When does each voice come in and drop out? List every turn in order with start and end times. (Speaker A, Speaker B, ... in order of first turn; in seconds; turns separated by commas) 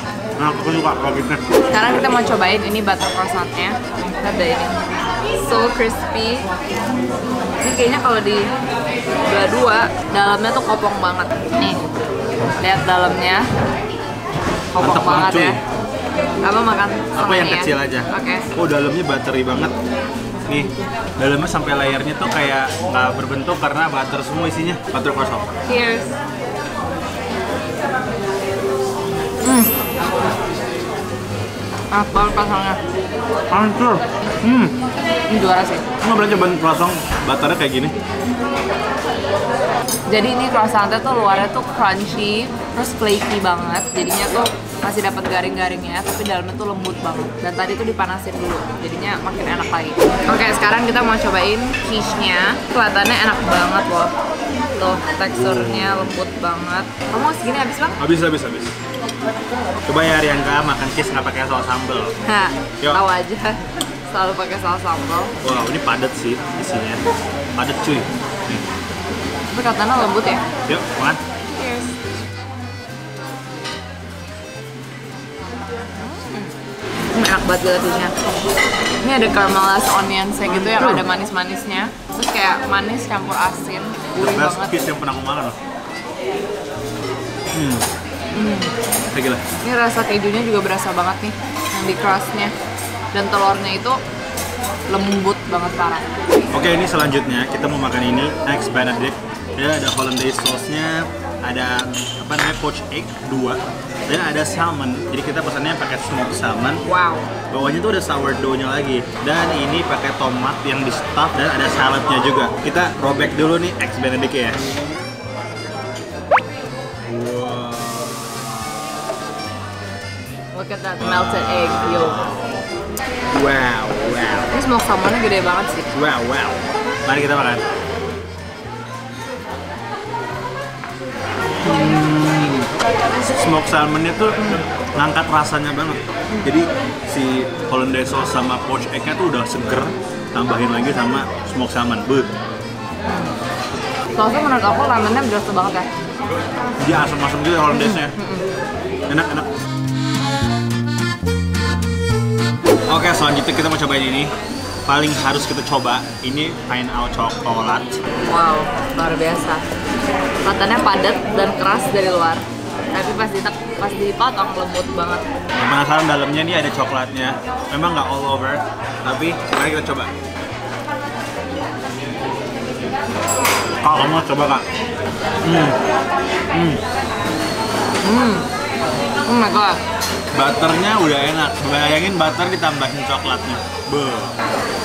Speaker A: 0.4-1.4, Speaker B: 1.7-4.7, Speaker B: 5.3-6.5, Speaker B: 7.6-8.4, Speaker B: 9.2-11.8, Speaker B: 12.6-13.5, Speaker B: 14.7-15.6, Speaker A: 14.8-15.6, Speaker B: 16.4-18.5, Speaker A: 17.1-19.7, Speaker A: 20.5-25.5, Speaker B: 25.7-26.1, Speaker B: 29.4-29.7, Speaker B: 31.9-32.8, Speaker A: 33.5-34.8, Speaker B: 35.3-35.9, Speaker A: 36.0-37.9, Speaker B: 40.1-54.1, Speaker B: 54.7-58.0, Speaker A: 55.3-56.1, Speaker A: 58.0-58.7, Speaker A: 59.9-62.1, Speaker B: 62.2-65.3, Speaker A: 65.4-67.0, Speaker A: 67.6-68.6, Speaker B: 69.5-70.4, Speaker A: 70.7-71.2, Speaker B: 71.4-71.9, Speaker B: 75.9-76.5, Speaker B: 77.1-78.1, Speaker B: 79.0-84.8, Speaker A: 80.5-81.0, Speaker A: 84.1-85.5, Speaker A: 87.5-87.9, Speaker B: 88.3-88.7, Speaker A: 89.1-89.4, Speaker B: 89.6-92.5, Speaker B: 93.1-94.0, Speaker B: 94.9-96.0, Speaker A: 96.5-106.8, Speaker B: 106.8-107.3, Speaker A: 107.5-114.6, Speaker A: 117.0-118.3, Speaker B: 120.5-122.2, Speaker A: 121.0-122.7, Speaker A: 123.3-124.5, Speaker B: 124.5-125.8, Speaker A: 125.9-127.6, Speaker A: 131.6-142.3, Speaker B: 143.1-143.4, Speaker B: 144.1-145.9, Speaker A: 146.8-148.1, Speaker B: 147.7-148.4, Speaker A: 149.1-149.5, Speaker A: 152.9-154.3, Speaker A: 154.8-158.0, Speaker B: 158.3-159.6, Speaker B: 160.4-165.2, Speaker A: 165.6-170.1, Speaker A: 173.8-174.6, Speaker A: 175.4-175.8, Speaker A: 176.5-176.8, Speaker B: 178.0-178.5, Speaker B: 179.2-179.8, Speaker A: 180.3-184.3